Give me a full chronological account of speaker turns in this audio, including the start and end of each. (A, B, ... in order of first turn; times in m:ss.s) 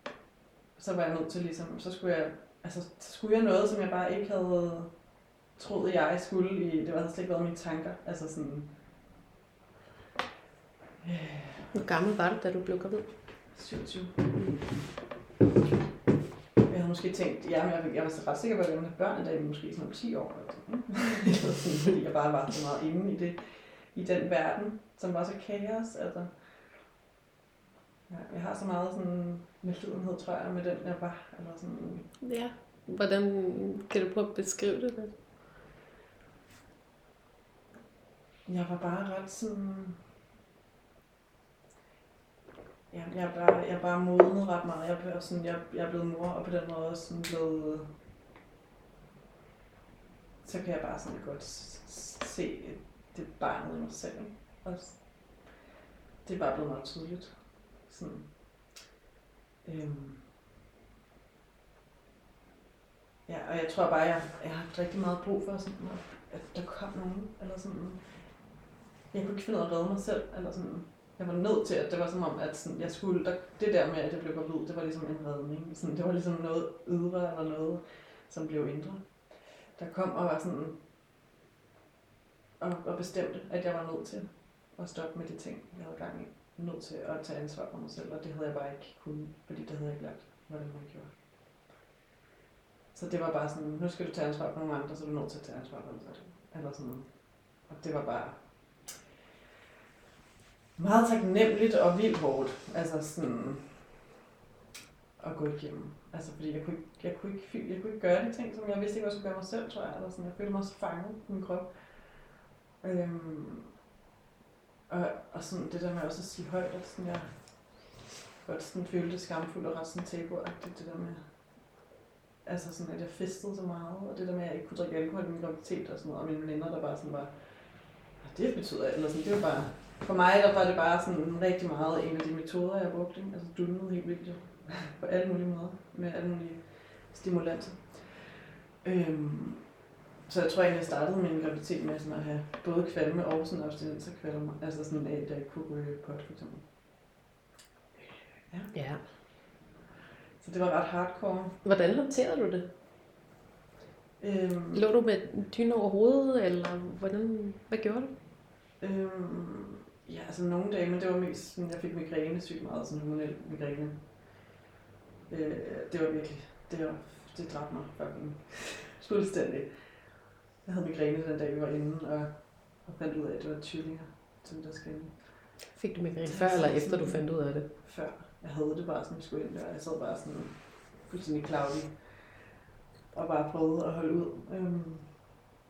0:00.8-0:05.0 A
0:05.5-0:08.7 A
0:11.0-0:11.8 A
0:11.7-0:13.2 B
0:13.5-0:14.2 A
0:14.3-0:14.6 B
0:16.7-0:26.4 A
0:28.1-0:32.1 A
0:32.2-0:35.2 B
0:38.4-0:40.0 A
0:42.9-0:47.9 A
0:50.4-0:55.6 A
0:56.2-0:58.4 A
0:59.6-1:00.3 A
1:03.2-1:08.3 A
1:09.1-1:20.8 A
1:22.6-1:31.2 A
1:32.9-1:38.9 A
1:40.8-1:44.0 A
1:45.2-1:52.1 A
1:52.8-1:53.8 A
1:54.9-2:01.3 A
2:02.4-2:26.7 A
2:27.9-2:29.3 A
2:28.7-2:29.0 B
2:30.4-2:31.6 A
2:31.6-2:32.7 B
2:34.2-2:34.8 A
2:34.7-2:38.1 B
2:38.8-2:44.3 A
2:45.3-2:55.7 A
2:55.7-2:57.7 B
2:56.2-3:02.4 A
3:03.1-3:05.4 A